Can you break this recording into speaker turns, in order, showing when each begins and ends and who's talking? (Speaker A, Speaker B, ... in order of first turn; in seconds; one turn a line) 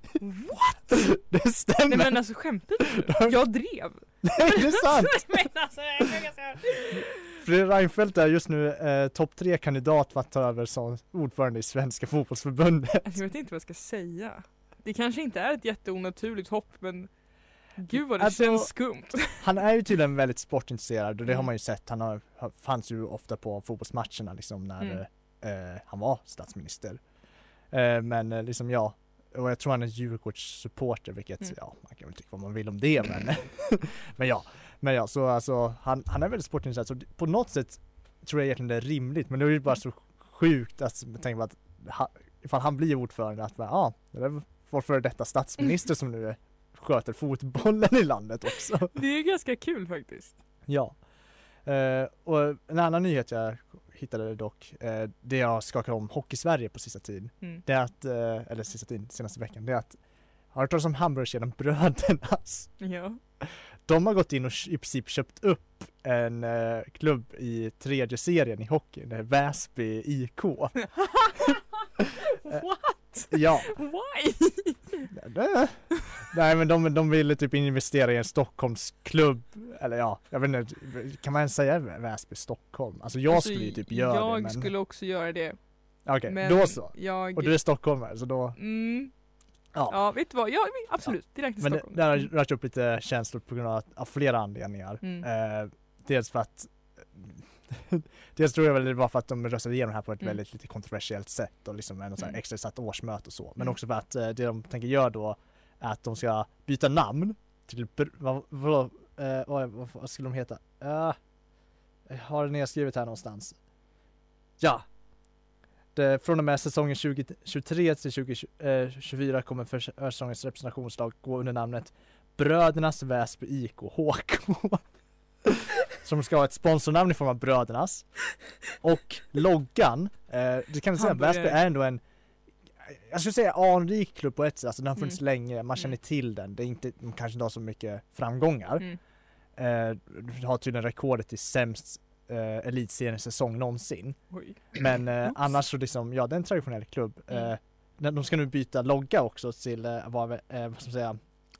Speaker A: 0.2-1.0
Speaker B: 0.9-3.4
Speaker A: 1.9-7.1
Speaker B: 4.2-5.3
Speaker B: 7.0-13.1
Speaker A: 13.0-19.4
Speaker B: 17.9-27.1
Speaker B: 27.7-48.9
Speaker A: 48.9-50.4
Speaker B: 50.7-51.0
Speaker B: 51.6-60.0
Speaker B: 60.5-62.8
Speaker A: 62.8-63.2
Speaker B: 63.4-71.3
Speaker A: 72.4-75.1
Speaker B: 73.3-73.7
Speaker B: 75.1-84.7
Speaker A: 83.3-87.7
Speaker B: 86.0-88.6
Speaker A: 88.5-89.2
Speaker B: 89.7-90.2
Speaker A: 89.9-92.3
Speaker B: 91.0-111.2
Speaker B: 112.1-113.6
Speaker B: 114.6-114.9
Speaker B: 115.9-124.8
Speaker B: 125.5-132.0
Speaker A: 131.0-131.6
Speaker B: 132.8-138.9
Speaker B: 139.5-151.2
Speaker A: 144.3-145.6